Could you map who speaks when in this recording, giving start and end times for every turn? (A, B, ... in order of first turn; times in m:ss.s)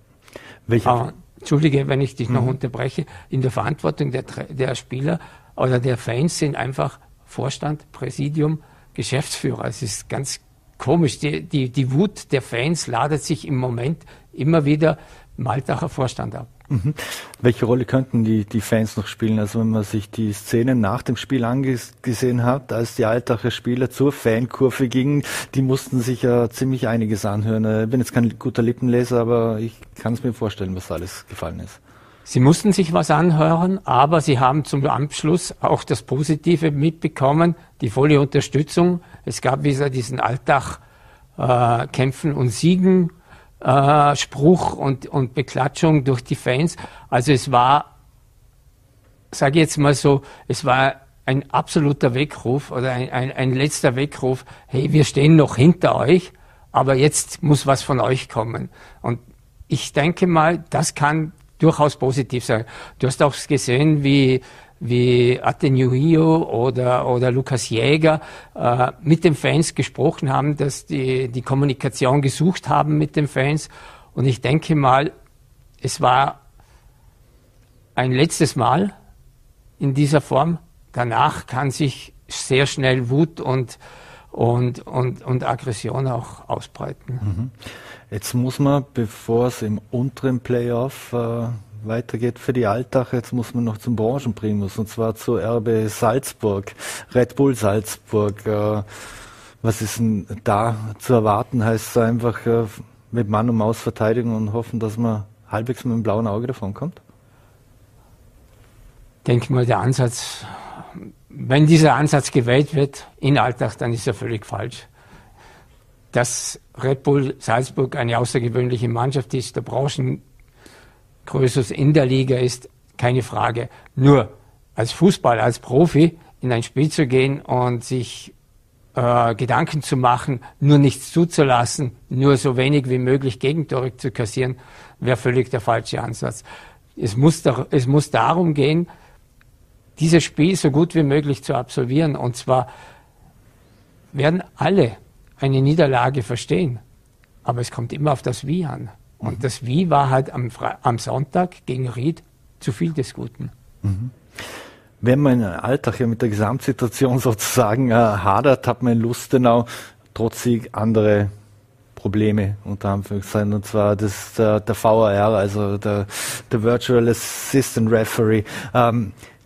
0:00.7-0:01.0 A
0:00.8-0:16.5 B
0:02.3-0:02.6 A
0:16.7-0:31.8 A
0:32.2-0:40.8 B
0:41.4-0:47.9 B
0:49.3-1:15.1 B
1:15.8-1:16.4 B
1:18.0-1:18.9 B
1:19.8-1:23.8 B
1:24.3-1:27.2 B
1:27.2-1:38.9 A
1:39.6-1:47.0 A
1:49.2-1:54.9 B
1:56.1-2:00.2 B
2:01.2-2:08.3 B
2:08.9-2:16.4 B
2:17.0-2:18.9 B
2:20.0-2:22.7 B
2:24.1-2:26.8 B
2:27.4-2:33.5 B
2:33.8-2:41.3 A
2:42.0-2:49.2 A